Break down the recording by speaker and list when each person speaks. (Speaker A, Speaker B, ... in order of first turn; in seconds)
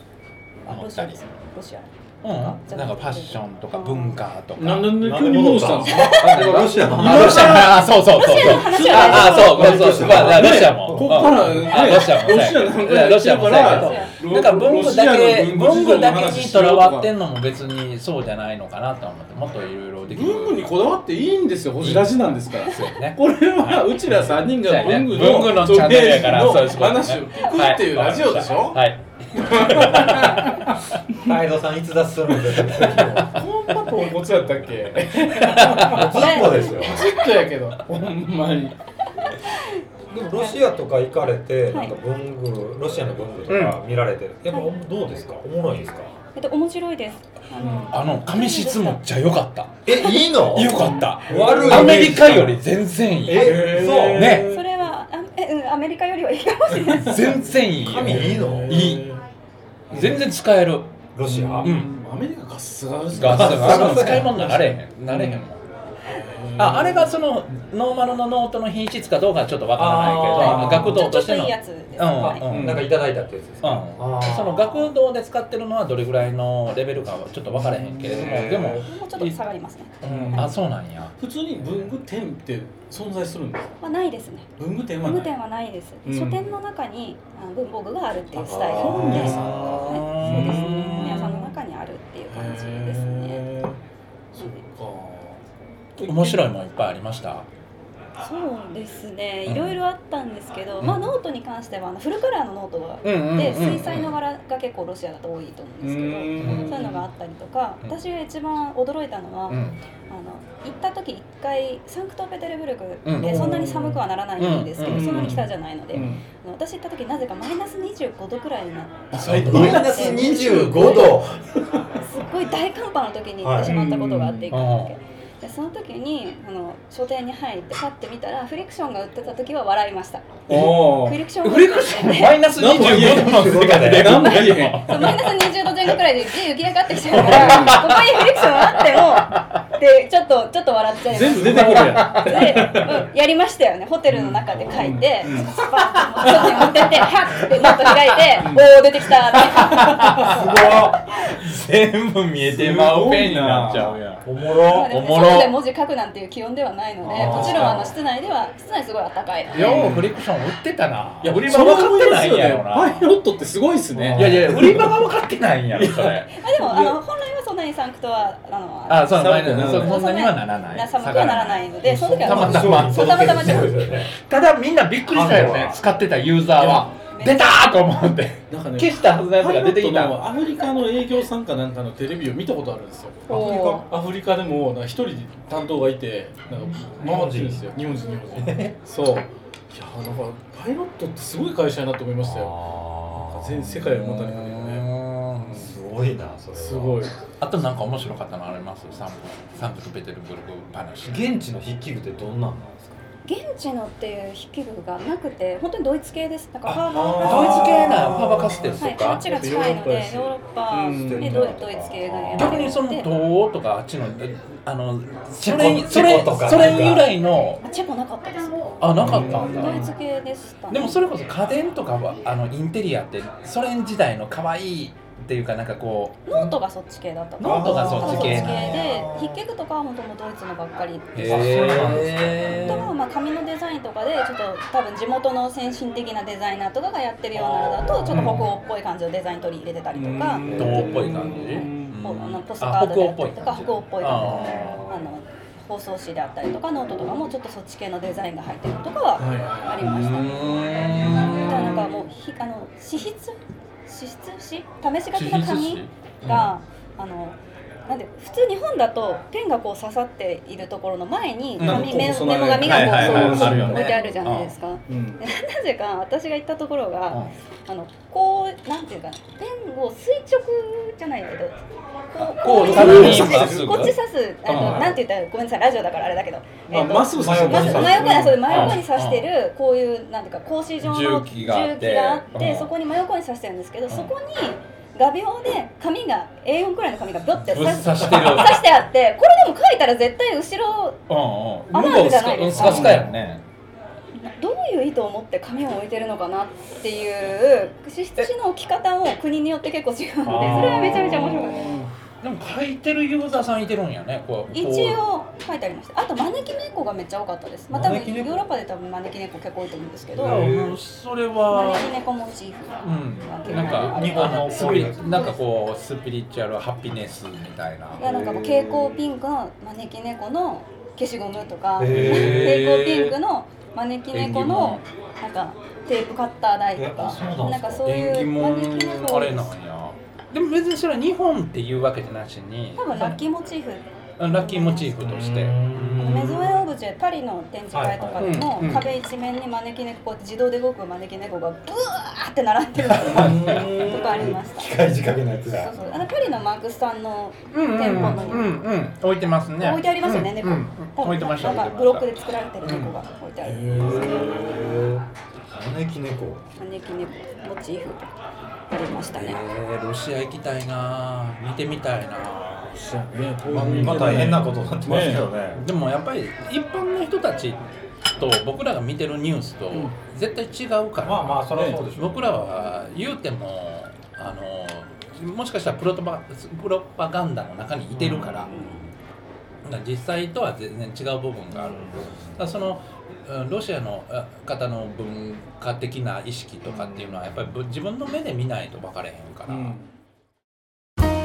Speaker A: 0.7-4.2, 5.9-6.5, 7.9-9.8, 13.5-14.2, 27.4-27.6, 36.1-37.0, 40.3-40.6, 46.4-49.0, 54.4-57.4, 70.5-72.5, 78.6-80.1, 83.8-84.5, 85.0-93.4, 94.4-94.6, 96.0-96.4, 98.2-121.2, 122.0-132.5, 134.1-150.8, 154.7-159.6, 166.3-173.8, 177.0-177.7, 183.3-183.9, 203.2-208.2, 208.8-213.1, 217.6-221.0, 226.3-231.4, 232.6-271.6, 272.1-291.0, 291.7-293.1, 294.1-301.8, 304.5-310.5, 311.5-315.4, 318.0-329.5, 332.8-334.9, 336.0-344.7, 345.5-348.5, 349.6-354.5, 356.6-358.1, 358.7-359.4
Speaker B: 0.7-1.2, 2.2-5.0, 6.1-20.6, 21.8-31.0, 35.3-36.0, 43.5-43.8, 47.9-53.5, 54.1-54.5, 57.0-59.1, 59.9-61.0, 61.6-61.9, 63.1-65.6, 66.6-72.8, 73.6-79.4, 80.0-81.1, 89.0-91.5, 96.0-97.5, 99.5-99.8, 100.8-101.1, 103.0-104.2, 106.4-106.8, 109.5-109.8, 113.0-113.5, 114.4-116.2, 119.2-119.6, 124.5-125.0, 131.4-135.6, 137.1-139.6, 145.9-148.2, 149.1-155.6, 157.5-157.9, 159.5-163.1, 164.2-166.3, 168.9-180.3, 193.5-195.5, 197.4-201.3, 207.2-209.3, 212.3-217.6, 218.8-219.9, 220.7-226.4, 227.4-229.0, 231.1-232.9, 238.1-238.6, 240.6-244.9, 249.8-251.9, 255.1-256.6, 261.6-261.9, 262.6-264.6, 272.2-275.0, 278.4-279.3, 280.8-282.7, 287.4-288.6, 291.1-293.4, 300.4-301.4, 302.2-305.0, 310.2-312.0, 312.8-318.1, 321.9-323.2, 324.1-324.8, 327.9-333.2, 334.2-336.2, 338.2-338.9, 343.5-343.7, 347.5-353.0, 359.1-362.8, 365.5-367.6, 368.2-378.6, 379.6-389.8
Speaker C: 4.5-17.1, 20.1-30.8, 32.6-38.8, 47.6-47.9, 50.7-52.2, 53.3-54.6, 57.9-59.2, 61.3-65.5, 66.0-67.1, 70.4-71.0, 72.5-72.9, 77.7-78.5, 80.0-80.6, 81.2-83.8, 84.6-85.3, 86.0-86.5, 88.6-91.5, 92.3-93.8, 94.3-95.4, 105.8-107.0, 113.2-114.0, 114.8-116.2, 119.1-121.8, 123.6-124.5, 130.5-131.2, 132.5-135.1, 137.2-137.8, 141.1-143.0, 144.1-145.5, 146.2-146.6, 148.4-148.7, 152.5-154.0, 157.0-157.8, 159.5-160.1, 161.2-165.1, 165.7-167.0, 169.1-170.0, 178.5-183.3, 183.8-194.9, 195.5-195.8, 196.5-197.2, 206.9-207.5, 209.1-211.5, 219.0-219.9, 239.9-242.0, 249.2-249.8, 251.0-251.4, 261.6-264.0, 264.9-265.2, 272.8-273.3, 276.7-278.6, 292.6-293.1, 300.4-300.8, 301.6-301.9, 353.4-354.8, 362.7-365.4, 371.5-371.8, 389.5-389.9
Speaker D: 5.0-7.7, 9.3-11.4, 31.2-33.4, 35.9-37.0, 40.1-46.1, 49.9-52.6, 53.2-54.5, 57.8-58.9, 61.1-61.7, 63.2-64.8, 69.8-71.0, 72.2-74.9, 78.0-78.7, 88.4-89.9, 119.3-121.4, 123.4-123.7, 132.8-134.2, 150.2-151.0, 154.2-154.9, 157.1-157.9, 163.9-164.6, 171.8-174.1, 175.1-175.8, 183.3-183.9, 186.7-187.7, 188.3-188.8, 192.2-193.4, 195.4-197.1, 201.0-203.0, 206.7-208.8, 210.7-212.6, 215.4-217.1, 227.4-229.4, 231.2-232.8, 237.3-238.0, 240.5-241.0, 272.5-273.7, 277.1-278.8, 300.3-301.1, 307.7-308.4, 310.1-310.8, 313.5-315.1, 318.0-319.0, 321.8-322.6, 326.8-327.9, 335.0-336.6, 337.7-338.3, 343.0-346.0, 347.9-348.3, 353.6-356.4, 363.4-365.6, 371.0-372.5, 377.9-378.9, 381.5-382.3, 386.7-387.4